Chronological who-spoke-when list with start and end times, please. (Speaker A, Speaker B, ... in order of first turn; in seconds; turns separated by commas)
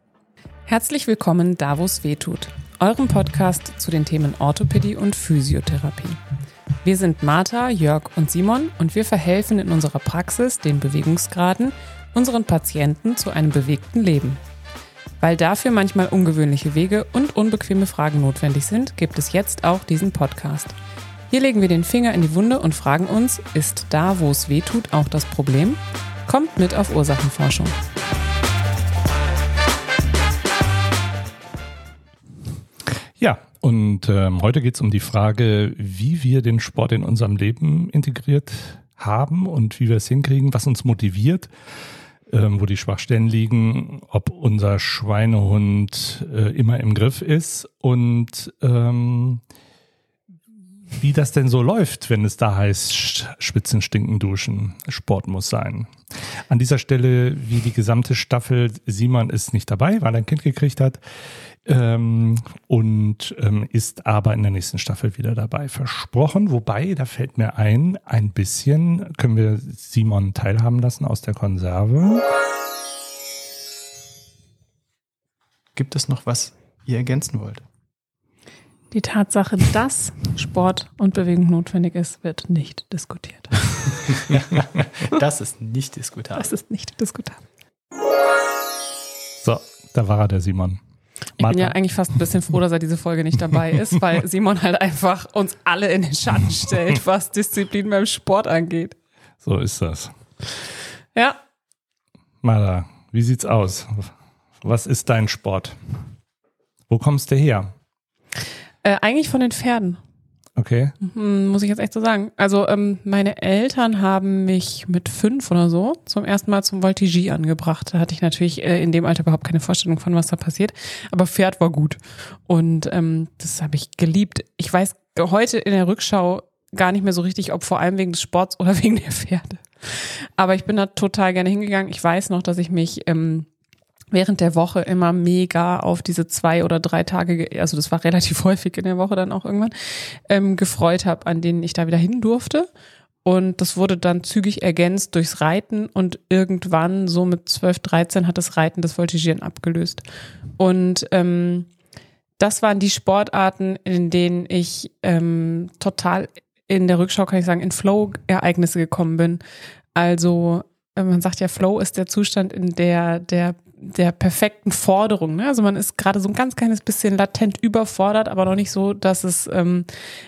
Speaker A: 0.7-6.2, Speaker A: 6.8-14.4, Speaker A: 15.2-20.7, Speaker A: 21.3-27.7, Speaker B: 33.2-41.5, Speaker B: 42.3-49.4, Speaker B: 50.9-55.9, Speaker B: 56.5-61.0, Speaker B: 61.6-72.2, Speaker C: 75.7-77.6, Speaker A: 78.9-84.0, Speaker C: 84.2-86.5, Speaker A: 86.4-87.4, Speaker B: 89.4-90.8, Speaker B: 91.4-91.8, Speaker A: 91.4-99.0, Speaker B: 99.4-100.1, Speaker B: 102.4-106.0, Speaker B: 106.9-107.7, Speaker A: 108.8-110.0, Speaker B: 110.5-111.0, Speaker A: 111.0-133.5, Speaker A: 134.1-139.7, Speaker A: 140.3-142.7, Speaker A: 143.2-150.0, Speaker A: 150.6-151.7, Speaker A: 152.4-159.4, Speaker A: 159.9-169.9